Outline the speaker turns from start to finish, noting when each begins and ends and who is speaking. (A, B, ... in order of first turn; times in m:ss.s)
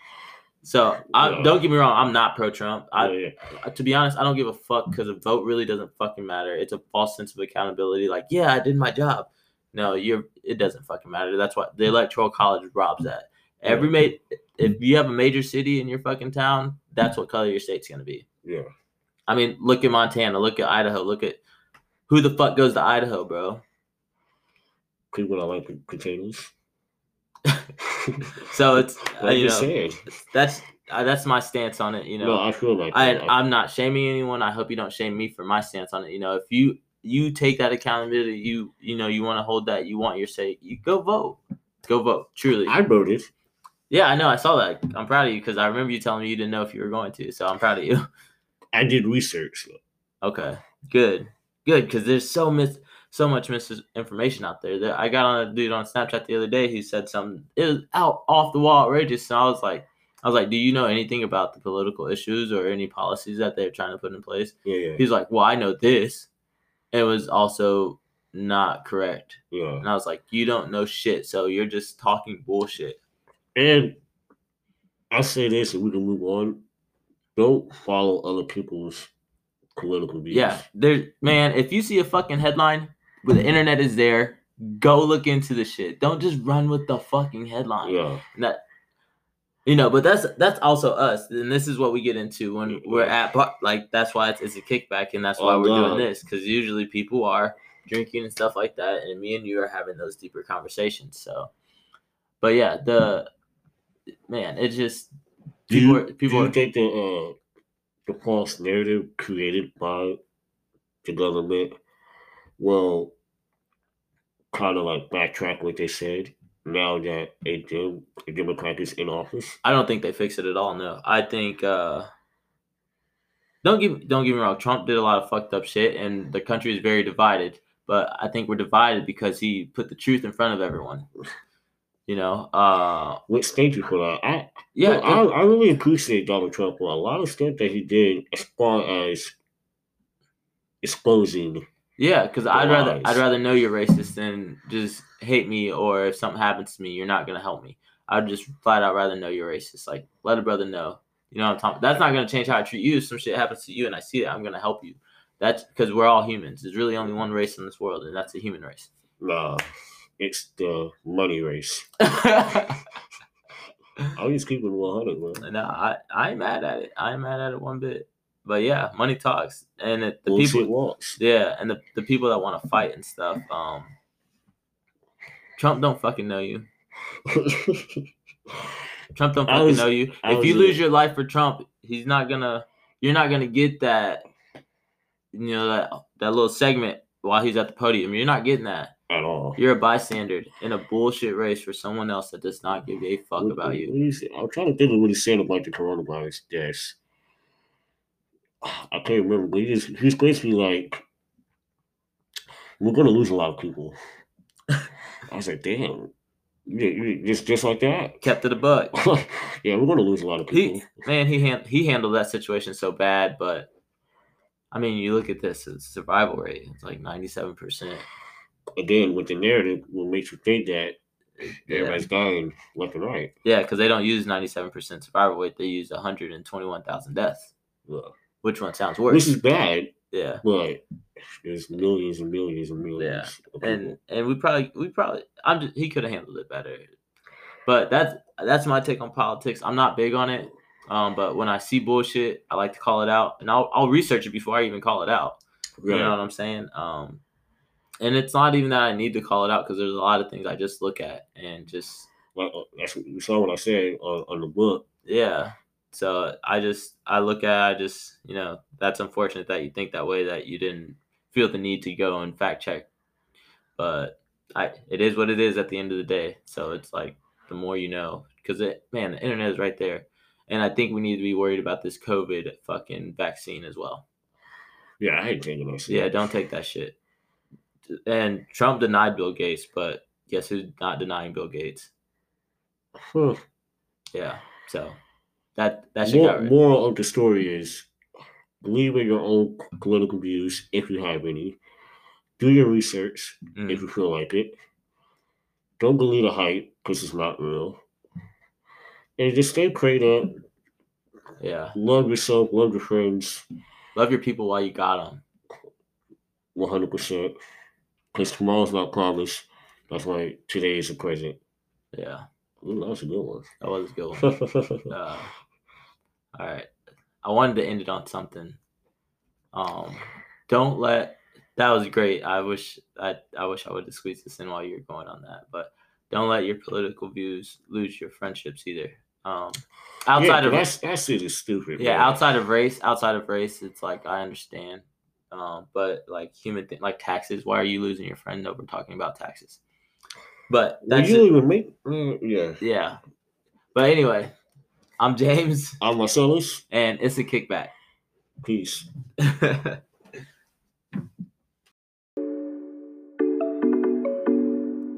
0:00.6-0:18.2 A
0:01.2-0:01.6 B
0:03.0-0:03.4 B
0:13.6-0:13.9 B
0:18.4-0:18.7 B
0:19.3-0:21.4 A
0:22.1-0:23.6 A
0:25.1-0:26.5 B
0:27.8-0:30.0 B
0:28.4-0:42.8 A
0:32.2-0:33.4 B
0:42.6-0:43.3 B
0:43.9-0:48.0 A
0:48.7-0:49.8 B
0:50.2-1:06.3 A
1:04.6-1:05.0 B
1:06.9-1:13.0 A
1:09.5-1:09.9 B
1:13.6-1:14.0 B
1:15.1-1:16.6 B
1:17.4-1:19.1 B
1:19.8-1:20.6 B
1:20.3-1:28.6 A
1:27.8-1:28.2 B
1:29.6-1:41.5 A
1:32.6-1:33.2 B
1:35.4-1:36.1 B
1:42.4-1:43.3 A
1:44.3-1:45.1 A
1:45.7-1:46.6 A
1:45.7-1:47.4 B
1:48.1-1:50.2 B
1:51.0-1:51.7 B
1:52.6-1:53.2 B
1:54.5-1:59.6 B
1:59.6-2:02.1 A
2:03.6-2:11.1 A
2:12.1-2:13.2 A
2:13.3-2:19.4 B
2:14.8-2:15.2 A
2:20.8-2:21.6 B
2:22.0-2:38.9 A
2:22.5-2:23.2 B
2:39.2-2:39.6 B
2:40.2-2:41.9 B
2:42.0-2:42.8 A
2:44.1-2:45.4 B
2:45.4-2:53.9 A
2:50.3-2:51.2 B
2:55.6-2:56.7 A
2:57.3-2:58.0 B
2:59.1-3:04.3 A
2:59.5-3:00.8 B
3:05.3-3:08.9 A
3:09.1-3:09.6 B
3:09.6-3:13.9 A
3:13.4-3:17.0 B
3:18.6-3:21.0 B
3:22.8-3:24.0 B
3:25.3-3:26.1 B
3:26.7-3:28.2 B
3:28.2-3:28.9 A
3:28.9-3:31.1 B
3:30.5-3:33.7 A
3:34.7-3:38.1 A
3:38.8-3:41.0 B
3:41.4-3:42.0 A
3:41.5-3:43.3 B
3:43.4-3:47.5 A
3:47.9-3:48.1 B
3:48.4-3:49.3 A
3:49.1-3:49.9 B
3:50.1-3:50.4 A
3:50.4-3:50.8 B
3:51.4-3:54.0 B
3:53.0-3:56.9 A
3:57.6-4:07.2 A
4:05.8-4:06.2 B
4:08.0-4:12.1 A
4:12.4-4:14.8 B
4:15.1-4:22.9 A
4:23.8-4:34.0 A
4:35.0-4:36.1 B
4:35.9-4:36.9 A
4:38.1-4:41.9 A
4:43.0-4:43.4 B
4:44.1-4:45.0 A
4:45.6-4:46.5 A
4:46.0-4:47.9 B
4:48.6-4:51.6 B
4:52.4-4:54.6 B
4:53.6-4:53.9 A
4:55.8-4:57.8 B
4:59.2-5:00.4 B
5:01.4-5:01.8 A
5:01.8-5:03.4 B
5:03.9-5:05.2 A
5:06.6-5:07.4 B
5:08.1-5:11.4 B
5:11.9-5:12.3 A
5:12.6-5:13.5 B
5:13.6-5:14.3 A
5:14.2-5:14.9 B
5:14.9-5:15.3 A
5:16.4-5:16.7 A
5:17.2-5:18.6 A
5:19.5-5:30.7 A
5:30.2-5:32.2 B
5:31.8-5:39.6 A
5:40.5-5:41.3 A
5:40.8-5:42.6 B
5:42.6-5:43.0 A
5:43.7-5:44.4 A
5:45.0-5:45.8 A
5:45.8-5:46.6 B
5:46.7-5:47.7 A
5:48.4-5:48.9 B
5:49.2-5:49.8 A